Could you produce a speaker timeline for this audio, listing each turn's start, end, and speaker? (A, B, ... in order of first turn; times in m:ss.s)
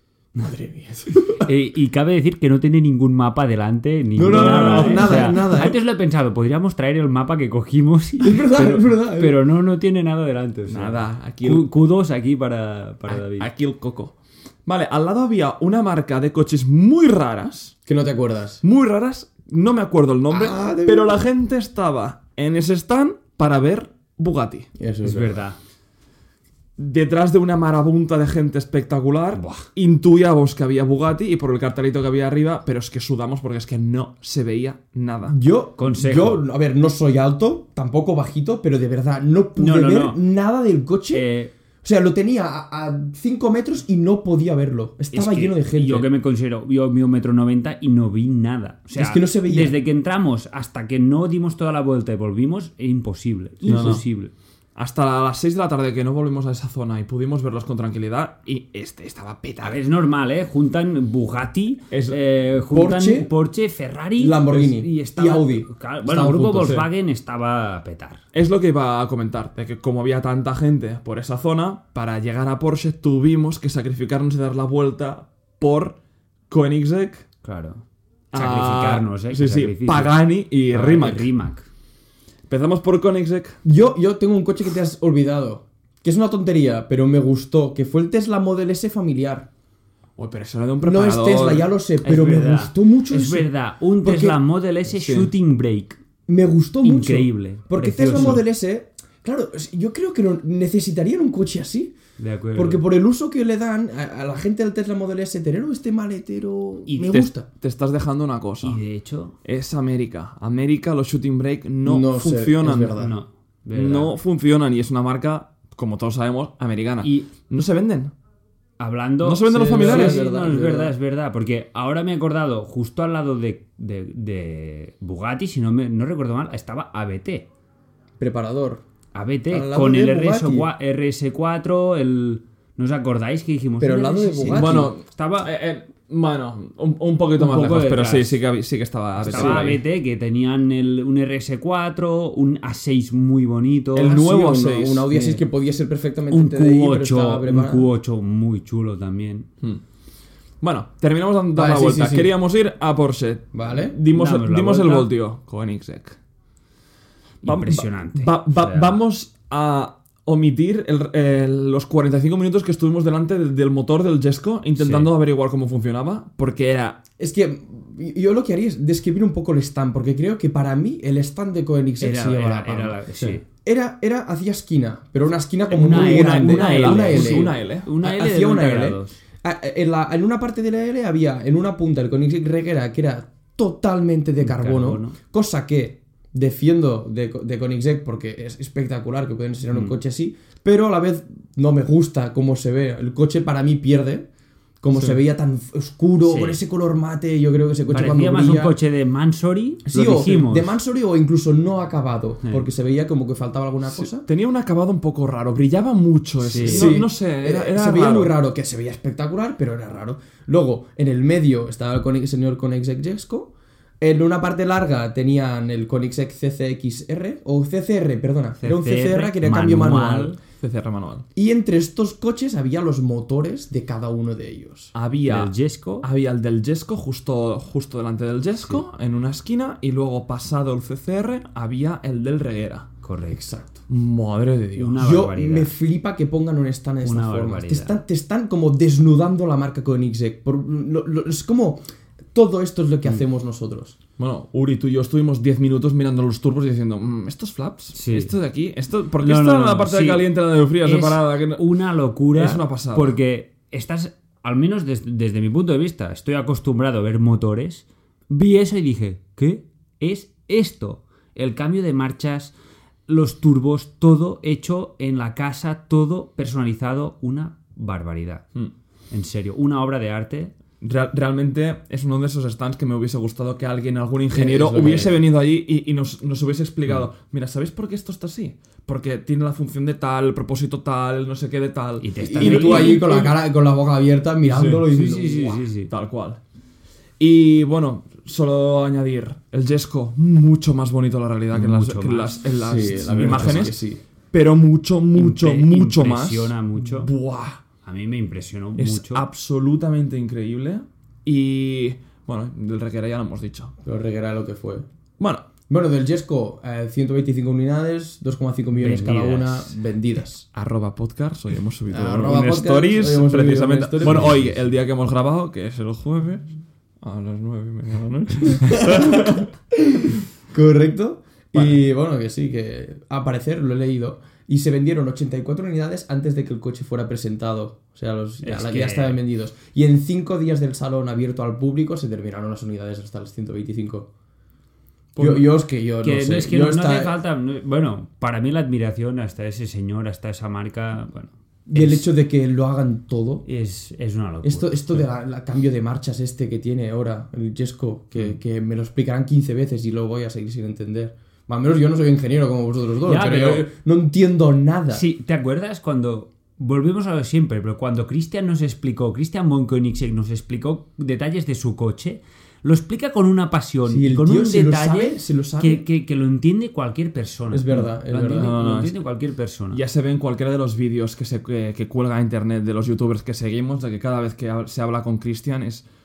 0:00.4-0:01.5 A
0:01.4-0:13.5 B
0:04.1-0:05.8 A
0:04.2-0:05.6 C
0:08.2-0:09.3 A
0:10.7-0:11.7 C
0:13.1-0:14.1 C
0:14.6-0:17.8 C
0:17.8-0:18.6 A
0:18.6-0:24.7 C
0:20.3-0:21.2 A
0:24.8-0:25.4 A
0:25.0-0:25.6 B
0:26.8-0:35.4 C
0:29.3-0:29.7 B
0:35.3-0:41.2 A
0:35.8-0:36.4 B
0:39.6-0:40.2 B
0:41.1-0:41.5 B
0:41.8-0:46.0 A
0:45.1-0:54.3 B
0:48.9-0:49.8 A
0:53.6-0:54.0 A
0:53.6-0:54.0 C
0:54.8-0:59.8 C
0:59.6-1:08.2 B
1:01.9-1:02.2 C
1:02.7-1:03.3 A
1:04.2-1:06.9 A
1:08.3-1:16.0 C
1:16.5-1:17.2 C
1:17.4-1:20.2 B
1:18.3-1:21.3 C
1:20.7-1:21.6 B
1:22.5-1:23.6 C
1:23.6-1:29.5 A
1:30.2-1:31.7 C
1:30.8-1:33.5 A
1:32.0-1:36.0 B
1:34.0-1:34.4 A
1:35.0-1:35.3 C
1:36.3-1:41.9 A
1:36.8-1:38.4 B
1:42.2-1:42.8 B
1:42.5-1:47.5 A
1:46.9-1:47.1 B
1:47.0-1:48.8 C
1:48.6-1:49.3 B
1:49.4-1:53.0 C
1:51.8-1:53.1 A
1:53.0-1:54.1 B
1:53.7-1:58.1 C
1:57.0-1:57.3 B
1:58.8-2:07.5 B
1:59.2-2:00.2 C
1:59.5-2:00.9 A
2:08.2-2:08.8 A
2:09.1-2:15.5 B
2:09.5-2:10.7 A
2:13.8-2:14.9 A
2:14.5-2:19.8 C
2:17.4-2:18.4 B
2:19.2-2:19.8 A
2:19.2-2:24.2 B
2:24.0-2:25.4 C
2:24.0-2:27.9 A
2:26.3-2:29.5 B
2:30.6-2:36.2 C
2:31.5-2:32.3 A
2:33.5-2:33.9 A
2:34.1-2:35.1 B
2:37.4-2:47.0 C
2:37.4-2:39.0 B
2:44.8-2:45.1 B
2:47.2-3:14.3 A
2:52.0-2:53.4 B
2:55.7-2:59.2 B
2:55.8-2:57.9 C
3:04.4-3:05.2 B
3:14.8-3:18.7 A
3:14.9-3:15.2 C
3:16.2-3:16.6 B
3:17.9-3:20.7 B
3:19.8-3:24.2 A
3:23.8-3:28.3 C
3:26.4-3:27.0 B
3:26.6-3:40.4 A
3:38.6-3:40.4 B
3:40.5-3:41.2 C
3:41.3-3:44.9 A
3:44.9-3:52.9 C
3:45.3-3:46.0 B
3:53.0-3:53.4 B
3:53.3-3:53.8 A
3:53.9-3:55.0 C
3:54.8-3:55.7 B
3:55.0-4:01.8 A
3:57.0-3:58.0 B
4:02.3-4:04.0 A
4:04.2-4:11.6 C
4:07.9-4:08.3 B
4:09.2-4:10.3 B
4:10.8-4:22.5 B
4:12.3-4:13.1 C
4:23.1-4:28.4 B
4:29.1-4:30.5 B
4:30.8-4:43.2 C
4:34.3-4:35.1 A
4:34.8-4:35.1 B
4:42.0-4:43.3 B
4:42.2-4:45.6 A
4:44.4-4:44.8 C
4:44.9-4:45.9 B
4:45.9-4:46.4 C
4:47.2-4:53.8 C
4:51.5-4:52.5 B
4:52.6-4:54.0 A
4:53.0-4:53.7 B
4:54.3-4:57.6 C
4:55.1-4:57.1 B
4:57.8-4:59.2 B
4:58.8-5:03.7 C
5:03.8-5:04.8 A
5:05.2-5:05.4 C
5:05.7-5:10.4 A
5:08.8-5:09.7 B
5:10.5-5:16.5 C
5:11.9-5:14.4 A
5:17.0-5:19.5 C
5:18.6-5:34.1 A
5:28.4-5:29.2 B
5:35.2-5:37.1 A
5:36.0-5:42.1 B
5:41.7-5:43.4 A
5:43.4-5:45.0 B
5:44.4-5:55.0 A
5:53.0-5:53.7 B
5:54.9-6:09.8 B
6:03.8-6:05.8 A
6:07.5-6:08.5 A
6:08.3-6:09.0 C
6:09.7-6:15.8 C